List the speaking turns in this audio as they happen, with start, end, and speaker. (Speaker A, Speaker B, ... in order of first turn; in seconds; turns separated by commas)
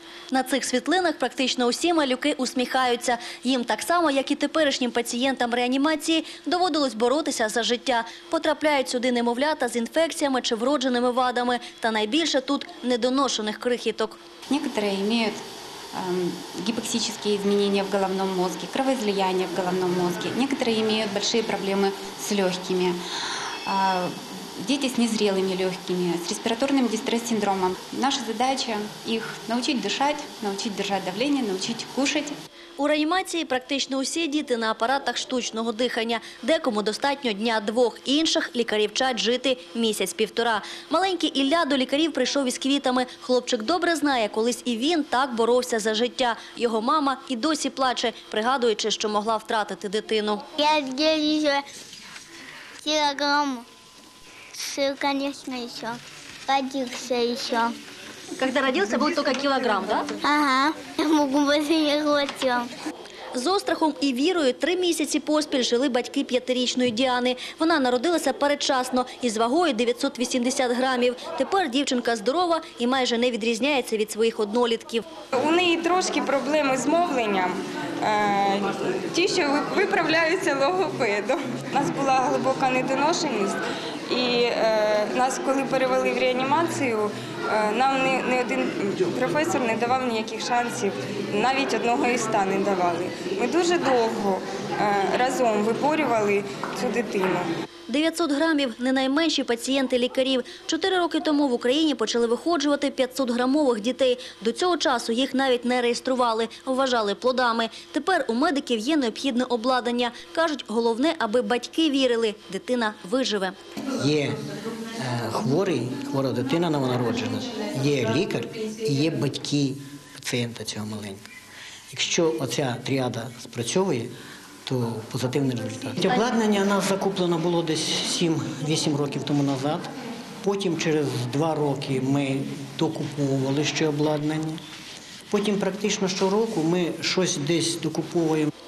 Speaker A: 0.3-14.2, Speaker B: 14.5-15.4, Speaker B: 15.9-23.0, Speaker B: 23.6-32.3, Speaker A: 32.8-50.5, Speaker C: 50.6-51.6, Speaker C: 52.8-53.6, Speaker C: 54.5-57.7, Speaker A: 58.4-60.1, Speaker C: 60.2-62.7, Speaker A: 63.3-75.0, Speaker D: 75.4-97.5, Speaker A: 97.9-113.5, Speaker E: 114.0-114.3, Speaker E: 115.0-121.2, Speaker E: 121.9-124.1, Speaker E: 124.7-129.9, Speaker E: 130.4-134.6, Speaker E: 135.3-138.5